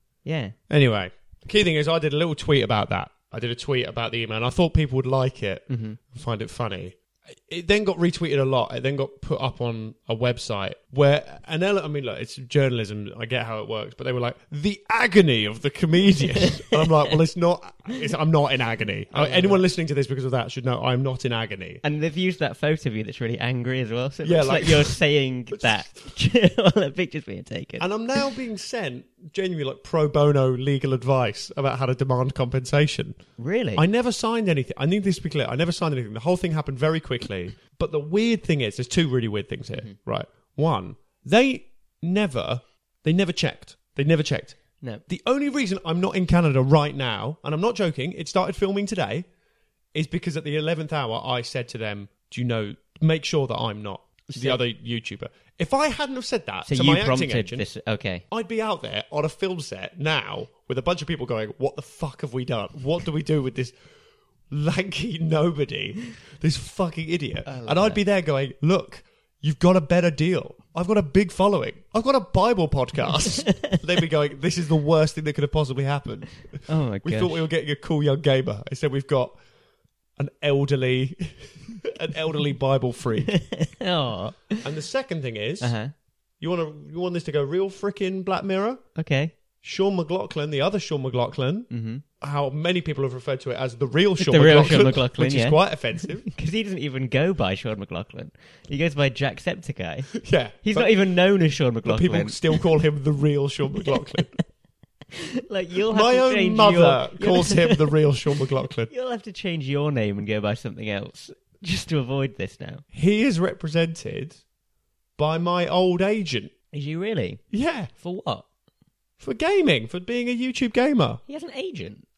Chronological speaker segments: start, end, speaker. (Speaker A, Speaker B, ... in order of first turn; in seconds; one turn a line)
Speaker A: 0.2-0.6
Speaker B: 0.7-21.8
Speaker A: 5.7-6.0
Speaker A: 19.1-19.6
Speaker A: 21.8-27.9
Speaker B: 24.2-25.0
Speaker B: 27.8-33.2
Speaker A: 33.4-33.8
Speaker B: 33.7-49.3
Speaker B: 49.9-57.6
Speaker A: 54.3-54.6
Speaker A: 56.6-58.2
Speaker B: 58.3-63.7
Speaker B: 64.5-79.4
Speaker A: 67.5-68.0
Speaker A: 76.7-77.4
Speaker B: 80.2-83.4
Speaker A: 83.2-84.6
Speaker B: 84.6-85.7
Speaker A: 85.6-85.9
Speaker B: 86.4-88.8
Speaker A: 88.9-89.3
Speaker B: 89.6-91.7
Speaker A: 91.7-92.0
Speaker B: 92.2-96.2
Speaker A: 94.2-102.7
Speaker B: 100.1-101.0
Speaker B: 101.8-104.3
Speaker A: 103.7-104.2
Speaker A: 105.1-112.8
Speaker B: 105.9-108.9
Speaker B: 112.9-114.4
Speaker B: 115.2-116.5
Speaker A: 116.7-118.5
Speaker B: 117.5-117.9
Speaker B: 119.2-121.2
Speaker A: 121.3-122.0